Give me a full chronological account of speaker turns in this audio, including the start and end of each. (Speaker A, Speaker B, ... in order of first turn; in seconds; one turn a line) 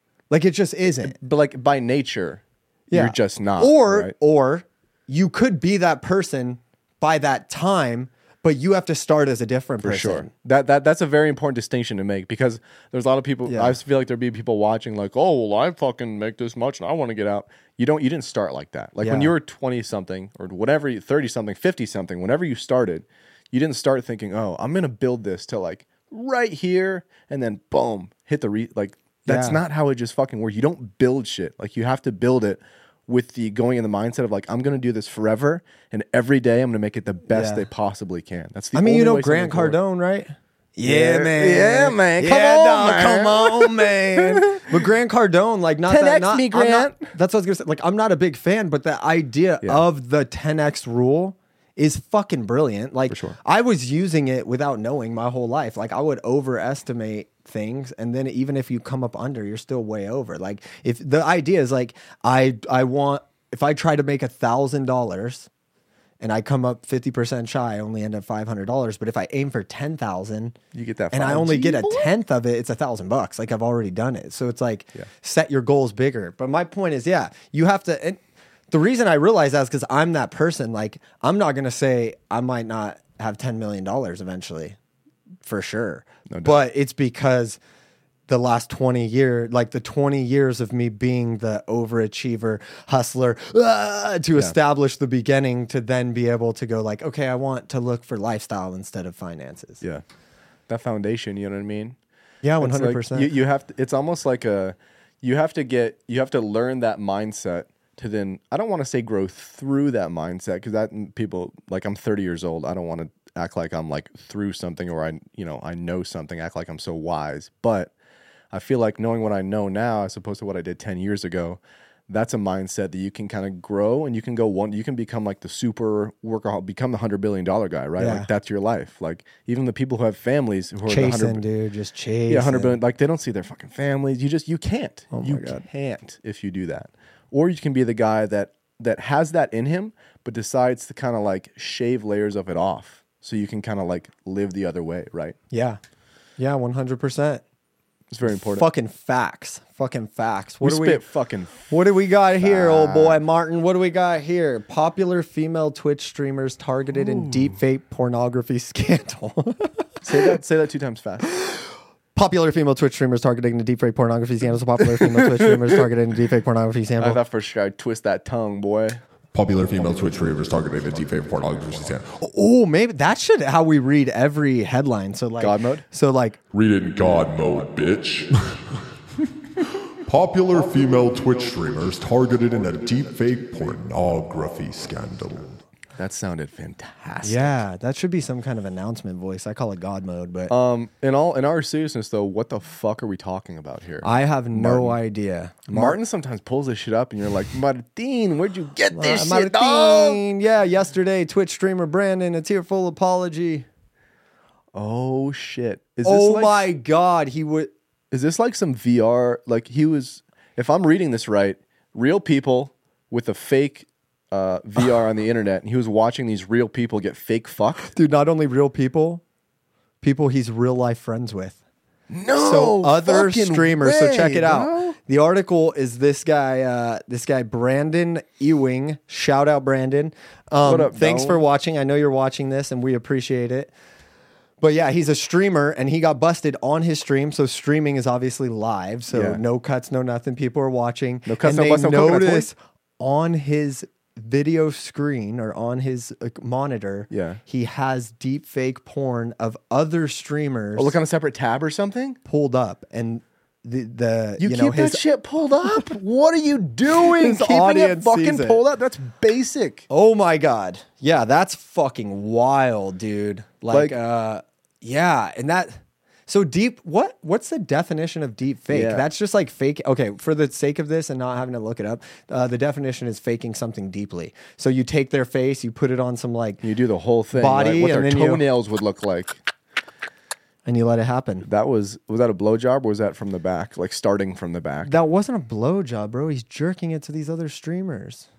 Speaker A: 0.3-1.2
Speaker B: 1.0-4.1
Speaker A: 2.9-10.3
Speaker B: 9.8-39.8
Speaker A: 13.5-13.8
Speaker A: 19.0-19.3
Speaker A: 29.3-29.6
Speaker A: 37.3-37.7
Speaker A: 38.7-65.5
Speaker B: 40.8-44.8
Speaker B: 45.9-47.1
Speaker B: 53.1-53.4
Speaker A: 66.2-70.5
Speaker B: 70.7-72.1
Speaker A: 71.1-78.2
Speaker A: 78.7-84.8
Speaker A: 85.4-87.6
Speaker B: 86.3-86.6
Speaker A: 88.3-99.8
Speaker B: 100.7-102.0
Speaker A: 102.4-103.3
Speaker B: 102.6-117.9
Speaker B: 118.5-131.4
Speaker A: 128.0-128.3
Speaker A: 130.9-132.8
Speaker B: 132.3-145.3
Speaker A: 135.1-135.7
Speaker A: 145.5-145.8
Speaker A: 146.4-147.4
Speaker B: 148.1-148.7
Speaker A: 148.2-151.0
Speaker B: 150.6-151.7
Speaker A: 151.7-160.0
Speaker B: 152.4-153.2
Speaker B: 156.9-157.6
Speaker B: 160.0-161.3
Speaker A: 161.3-161.6
Speaker A: 162.1-167.2
Speaker B: 164.8-165.8
Speaker B: 167.0-169.0
Speaker C: 169.3-172.1
Speaker A: 172.2-176.4
Speaker B: 175.4-175.8
Speaker C: 176.5-178.6
Speaker C: 179.9-185.6
Speaker B: 185.9-187.6
Speaker A: 187.2-190.5
Speaker B: 190.5-195.0
Speaker A: 194.0-196.0
Speaker B: 195.7-200.2
Speaker A: 198.9-203.7
Speaker B: 204.7-206.6
Speaker A: 206.0-207.7
Speaker B: 208.1-217.9
Speaker A: 217.9-219.2
Speaker A: 220.0-221.6
Speaker B: 222.1-225.0
Speaker A: 222.3-233.7
Speaker B: 230.6-231.4
Speaker A: 234.6-250.9
Speaker B: 239.1-239.4
Speaker B: 241.2-242.5
Speaker B: 247.1-247.4
Speaker B: 250.8-252.2
Speaker A: 252.2-255.0
Speaker B: 254.4-259.9
Speaker A: 256.9-258.6
Speaker A: 259.9-276.6
Speaker B: 263.7-263.9
Speaker B: 268.7-269.0
Speaker B: 276.6-279.4
Speaker A: 277.3-278.4
Speaker A: 280.6-281.5
Speaker B: 281.4-284.9
Speaker A: 284.8-288.2